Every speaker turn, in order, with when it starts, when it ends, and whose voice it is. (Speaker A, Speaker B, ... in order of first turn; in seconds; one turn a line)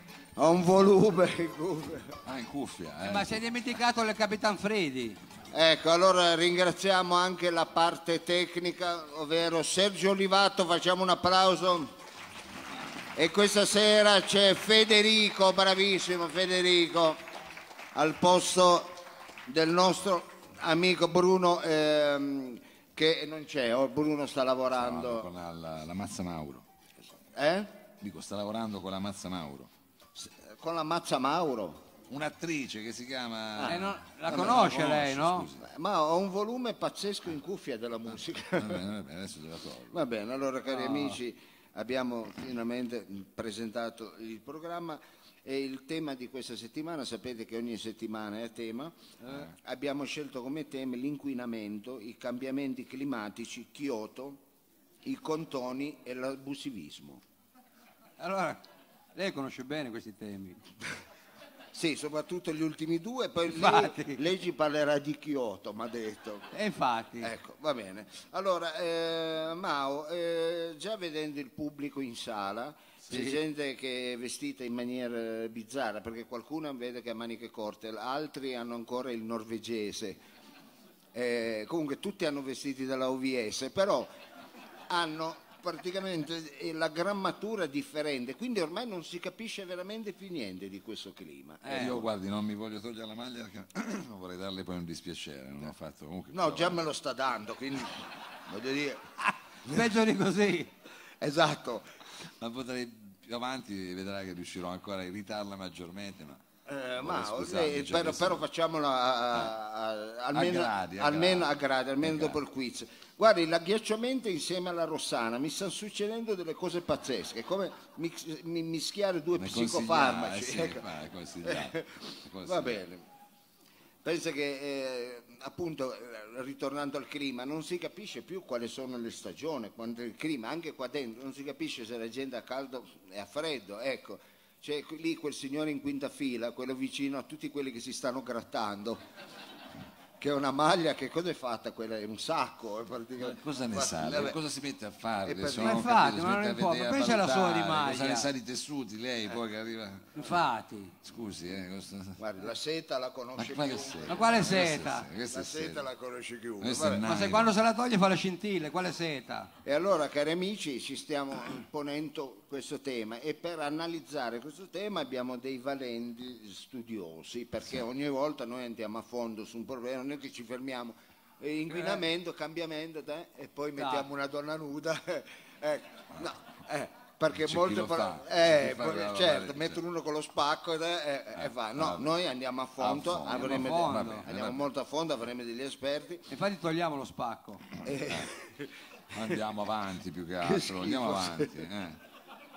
Speaker A: 0.4-2.2
Speaker B: 2.2-3.4
Speaker C: 3.0-5.2
Speaker A: 5.5-11.9
Speaker A: 13.2-17.2
Speaker A: 17.9-25.3
Speaker B: 24.7-26.7
Speaker A: 27.4-27.7
Speaker B: 28.0-29.7
Speaker A: 30.1-31.8
Speaker B: 32.1-35.7
Speaker A: 33.5-34.7
Speaker C: 33.7-35.5
Speaker A: 35.6-38.8
Speaker B: 38.5-40.0
Speaker A: 39.9-49.0
Speaker C: 40.7-41.2
Speaker C: 49.2-49.5
Speaker A: 49.5-54.4
Speaker A: 55.0-57.2
Speaker C: 58.2-58.6
Speaker C: 59.1-60.6
Speaker A: 61.7-66.5
Speaker C: 63.5-64.2
Speaker C: 66.5-67.3
Speaker A: 67.2-80.2
Speaker C: 73.1-73.4
Speaker A: 81.1-84.1
Speaker A: 84.9-92.1
Speaker C: 91.7-92.0
Speaker B: 91.7-96.8
Speaker A: 96.3-99.1
Speaker C: 99.7-100.7
Speaker A: 101.2-101.9
Speaker B: 102.4-106.4
Speaker A: 106.7-120.9
Speaker B: 107.0-108.4
Speaker B: 110.3-112.4
Speaker B: 119.4-122.8
Speaker A: 121.4-123.0
Speaker A: 124.0-139.0
Speaker A: 140.2-144.4
Speaker B: 143.2-150.4
Speaker A: 145.2-145.9
Speaker C: 145.6-148.3
Speaker C: 150.2-150.9
Speaker B: 151.0-152.2
Speaker A: 152.2-154.2
Speaker B: 153.4-155.9
Speaker C: 154.1-155.1
Speaker A: 155.3-157.0
Speaker B: 156.6-157.6
Speaker C: 157.0-159.5
Speaker A: 159.6-186.3
Speaker C: 173.8-174.1
Speaker B: 177.3-179.8
Speaker B: 181.4-182.1
Speaker B: 182.8-184.7
Speaker C: 183.3-184.2
Speaker C: 186.3-187.7
Speaker A: 187.8-189.4
Speaker B: 188.0-188.3
Speaker B: 189.1-192.0
Speaker A: 190.4-191.6